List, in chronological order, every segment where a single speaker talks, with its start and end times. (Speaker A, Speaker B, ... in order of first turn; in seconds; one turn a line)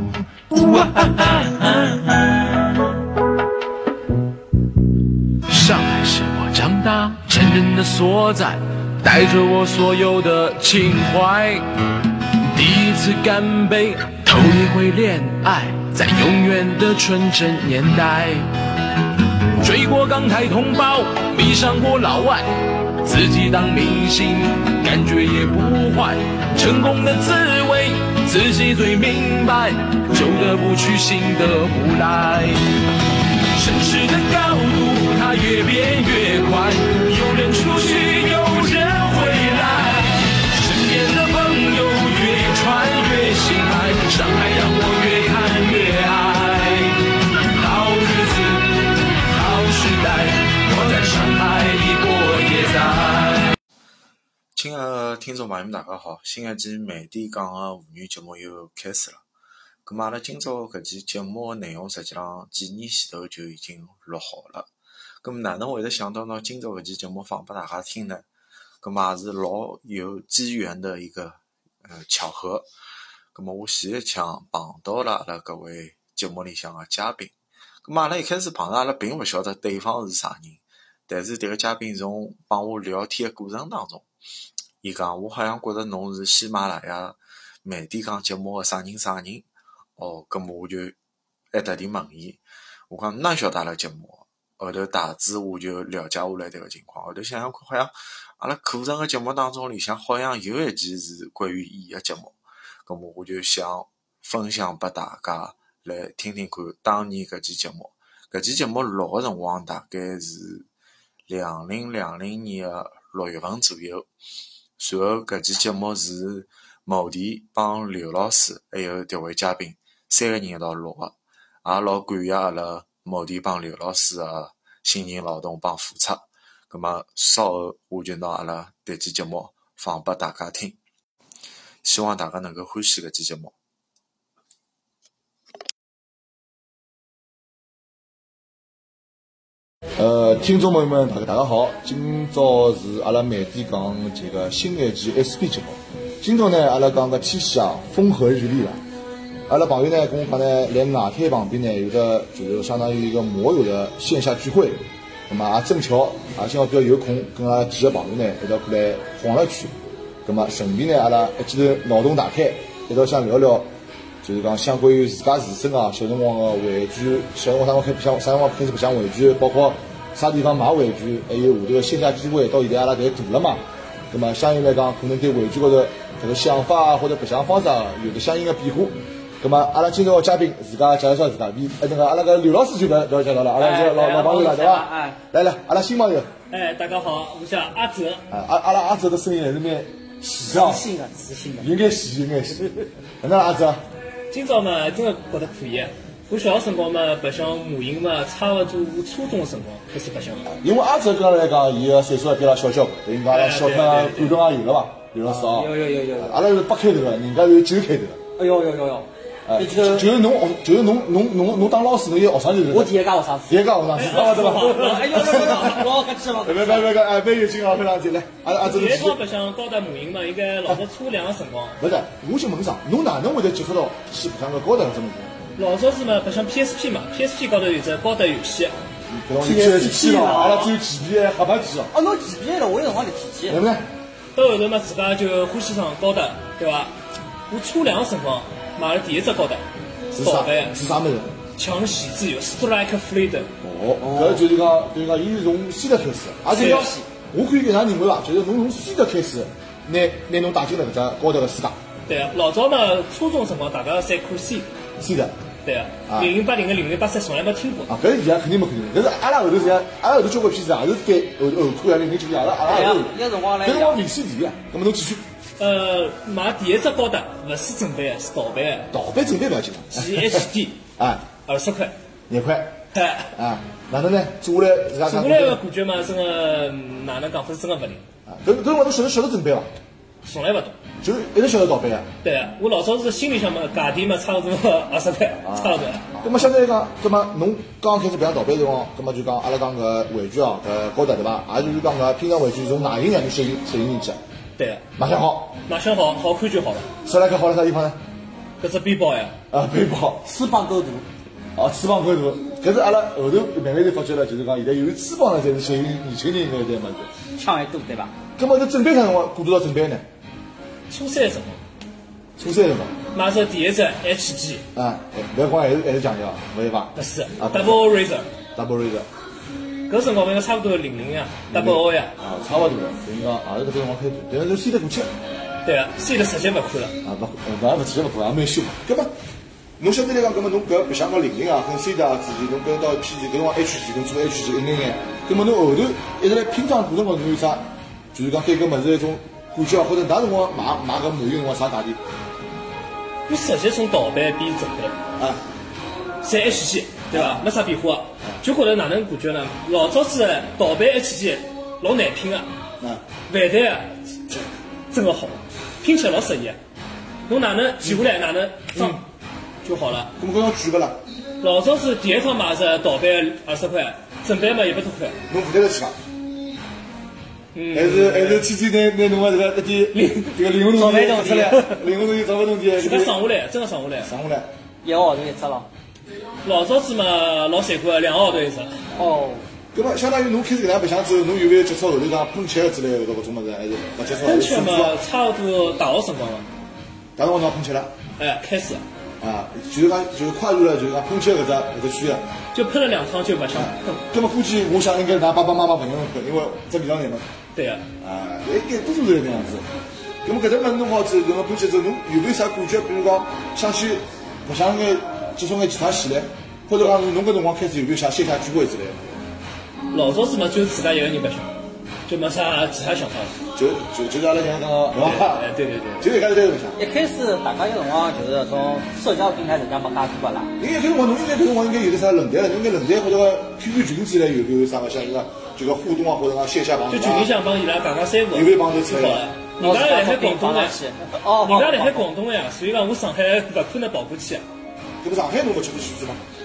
Speaker A: 0.5-2.4
Speaker A: 5.5-11.7
Speaker A: 12.4-18.5
Speaker A: 19.6-32.8
Speaker A: 33.5-53.5
Speaker B: 54.5-59.2
Speaker B: 59.8-64.7
Speaker B: 65.2-68.2
Speaker B: 68.8-72.7
Speaker B: 73.3-77.3
Speaker B: 77.8-84.1
Speaker B: 84.8-89.5
Speaker B: 90.0-90.9
Speaker B: 91.5-110.7
Speaker B: 111.3-114.1
Speaker B: 114.8-130.8
Speaker B: 131.8-133.5
Speaker C: 140.0-148.8
Speaker C: 149.5-159.7
Speaker C: 160.2-163.7
Speaker C: 164.2-186.3
Speaker D: 183.6-185.2
Speaker E: 186.5-188.2
Speaker C: 188.3-190.8
Speaker D: 190.4-191.7
Speaker C: 191.6-193.8
Speaker E: 194.3-200.5
Speaker C: 200.5-208.2
Speaker E: 203.3-204.4
Speaker D: 205.2-206.4
Speaker D: 208.4-210.1
Speaker C: 209.5-215.8
Speaker D: 212.7-213.6
Speaker E: 213.9-215.9
Speaker D: 214.3-216.9
Speaker C: 216.4-219.2
Speaker E: 218.6-221.8
Speaker C: 221.8-225.3
Speaker E: 225.6-228.7
Speaker C: 229.1-231.9
Speaker D: 229.4-230.7
Speaker D: 231.9-233.6
Speaker C: 233.5-233.9
Speaker E: 234.3-236.9
Speaker E: 237.5-239.6
Speaker C: 240.1-241.3
Speaker E: 240.2-240.8
Speaker E: 241.6-243.5
Speaker C: 243.6-251.8
Speaker D: 244.0-244.4
Speaker D: 246.5-247.1
Speaker E: 246.5-246.9
Speaker E: 252.1-254.7
Speaker C: 255.0-255.3
Speaker E: 255.6-257.9
Speaker C: 257.9-265.2
Speaker D: 262.6-264.0
Speaker E: 265.6-268.9
Speaker C: 268.9-271.2
Speaker E: 269.9-270.8
Speaker E: 271.5-271.9
Speaker C: 272.3-272.8
Speaker E: 272.9-273.3
Speaker C: 273.3-275.6
Speaker E: 275.0-278.0
Speaker C: 278.3-279.7
Speaker E: 280.2-280.8
Speaker C: 281.0-282.1
Speaker E: 282.2-286.1
Speaker C: 285.4-294.2
Speaker E: 294.6-294.8
Speaker C: 295.0-295.6
Speaker E: 295.7-296.9
Speaker C: 297.0-298.0
Speaker E: 298.6-299.3
Speaker C: 299.5-300.2
Speaker D: 300.2-301.1
Speaker C: 301.6-307.1
Speaker D: 307.3-308.1
Speaker C: 308.4-310.1
Speaker E: 310.9-311.6
Speaker C: 312.4-313.0
Speaker E: 313.1-314.6
Speaker C: 314.7-317.9
Speaker E: 316.9-318.3
Speaker C: 318.5-319.1
Speaker E: 319.9-322.1
Speaker C: 321.5-325.1
Speaker E: 325.6-326.9
Speaker C: 327.0-329.1
Speaker C: 329.8-342.0
Speaker E: 343.3-344.9
Speaker E: 346.2-352.5
Speaker C: 347.1-347.4
Speaker E: 353.3-356.6
Speaker E: 357.3-359.0
Speaker C: 358.7-359.0
Speaker E: 359.6-360.1
Speaker C: 360.2-361.0
Speaker E: 361.4-365.2
Speaker C: 365.3-365.9
Speaker E: 367.5-368.5
Speaker C: 367.7-373.2
Speaker E: 369.9-370.3
Speaker D: 370.7-371.8
Speaker E: 372.8-374.1
Speaker C: 374.0-374.5
Speaker D: 374.8-375.7
Speaker E: 376.4-378.8
Speaker D: 378.9-379.4
Speaker C: 379.7-385.0
Speaker E: 384.2-386.4
Speaker C: 387.2-387.9
Speaker E: 388.2-388.8
Speaker C: 389.2-392.3
Speaker E: 392.5-394.0
Speaker C: 393.5-397.3
Speaker E: 397.5-397.8
Speaker C: 398.0-399.7
Speaker C: 400.2-409.2
Speaker E: 409.9-411.5
Speaker E: 412.1-413.3
Speaker C: 413.5-415.5
Speaker E: 414.9-416.1
Speaker C: 416.0-416.8
Speaker D: 416.8-420.5
Speaker C: 420.6-427.3
Speaker E: 426.9-430.8
Speaker C: 428.3-429.3
Speaker D: 429.6-432.1
Speaker E: 431.4-434.4
Speaker C: 435.0-436.2